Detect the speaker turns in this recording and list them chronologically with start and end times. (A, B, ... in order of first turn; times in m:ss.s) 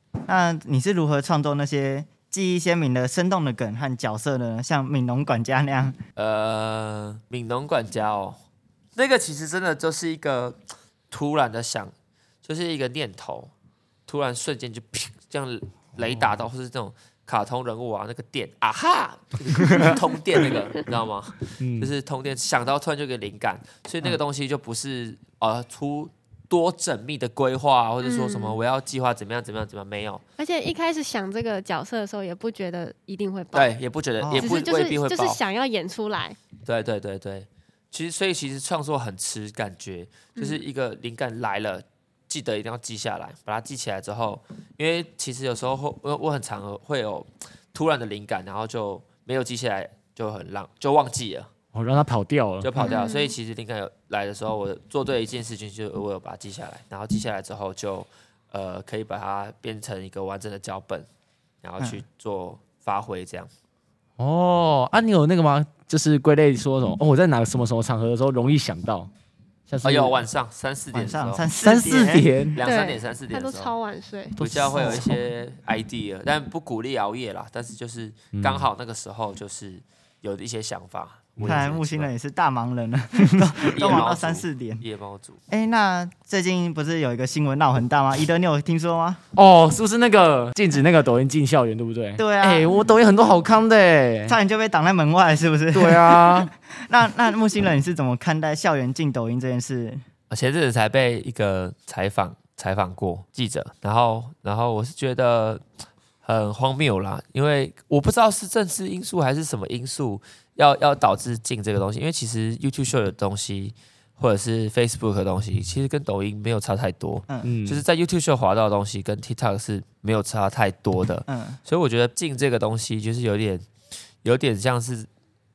0:00.3-0:06.0 A
0:06.2-0:08.4 B
0:09.0-0:10.6 B
0:11.1-0:11.9 B
0:12.4-0:13.5 B
0:14.1-0:30.2 B
0:16.0-0:16.4 C
0:21.6-0:21.9 C
0:28.0-0:28.6 D
0:30.4-0:33.7 D
0:33.5-0:35.4 B
0:34.2-0:34.5 A
0:34.3-0:36.4 D
0:36.6-0:51.5 B
0:40.4-0:40.6 D
0:51.7-0:52.7 C
0:52.6-1:01.1 B
0:52.8-0:53.3 D
1:01.6-1:03.5 B
1:04.2-1:09.1 C
1:09.7-1:10.2 C
1:09.8-1:11.4 B
1:10.9-1:12.4 A
1:11.6-1:12.6 C
1:12.6-1:13.7 B
1:12.6-1:14.4 D
1:14.4-1:15.2 C
1:14.4-1:22.1 B
1:18.3-1:18.7 C
1:21.4-1:24.8 A
1:23.7-1:25.4 B
1:25.5-1:29.2 A
1:29.3-1:34.4 C
1:32.2-1:32.7 A
1:34.3-1:40.0 A
1:35.7-1:36.5 C
1:40.3-1:45.6 B
1:46.2-2:03.7 B
1:57.4-1:57.8 C
2:01.3-2:01.6 A
2:04.2-2:05.1 B